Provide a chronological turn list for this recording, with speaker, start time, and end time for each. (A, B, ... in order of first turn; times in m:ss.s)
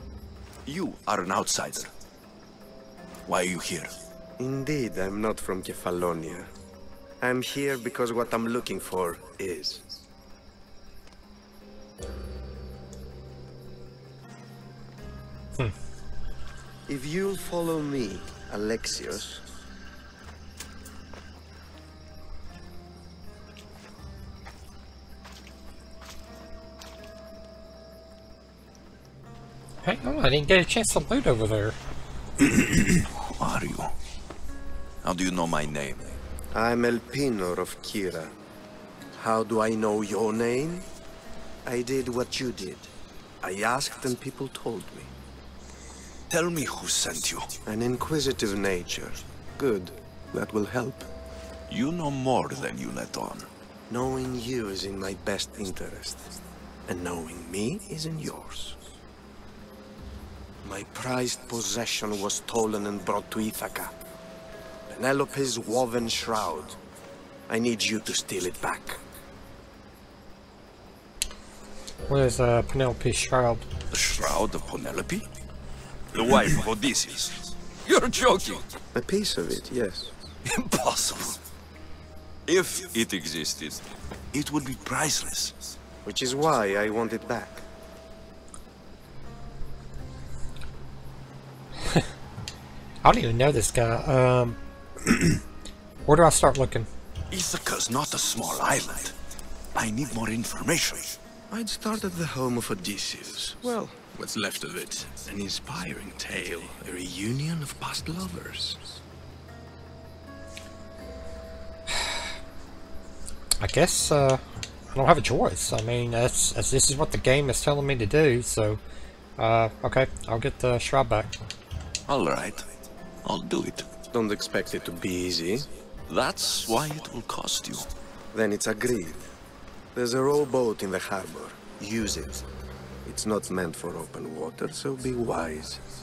0:00.7-0:01.9 A
0:03.3-0:04.0 A
0:04.4-0:06.5 B
0:07.2-0:09.9 B
0:16.9-0:19.4 B
0:29.8-0:31.8 C
0:32.4-0:33.9 A
0:35.0-0:36.1 A
0:36.5-0:38.4 B
0:39.2-0:40.9 B
0:41.6-0:42.9 B
0:43.4-0:45.1 B
0:46.3-0:47.5 A
0:47.6-0:51.1 B
0:51.7-0:53.5 A
0:53.9-0:58.8 B
1:00.6-1:04.0 B
1:04.9-1:06.8 B
1:07.5-1:09.0 B
1:12.1-1:13.7 C
1:13.9-1:15.2 A
1:16.1-1:18.6 A
1:18.9-1:20.1 B
1:20.4-1:21.4 A
1:22.5-1:25.5 A
1:26.0-1:27.6 B
1:33.0-1:35.4 C
1:36.1-1:36.9 C
1:37.3-1:39.1 A
1:39.8-1:41.2 A
1:41.5-1:44.1 B
1:44.1-1:46.8 A
1:45.5-1:46.0 B
1:46.8-1:48.9 B
1:51.9-1:52.2 C
1:53.6-1:58.8 C
1:59.4-2:01.3 C
2:02.1-2:02.7 A
2:03.2-2:03.9 A
2:04.1-2:05.7 B
2:06.1-2:07.9 A
2:08.3-2:09.2 B
2:09.9-2:12.5 B
2:13.0-2:15.8 B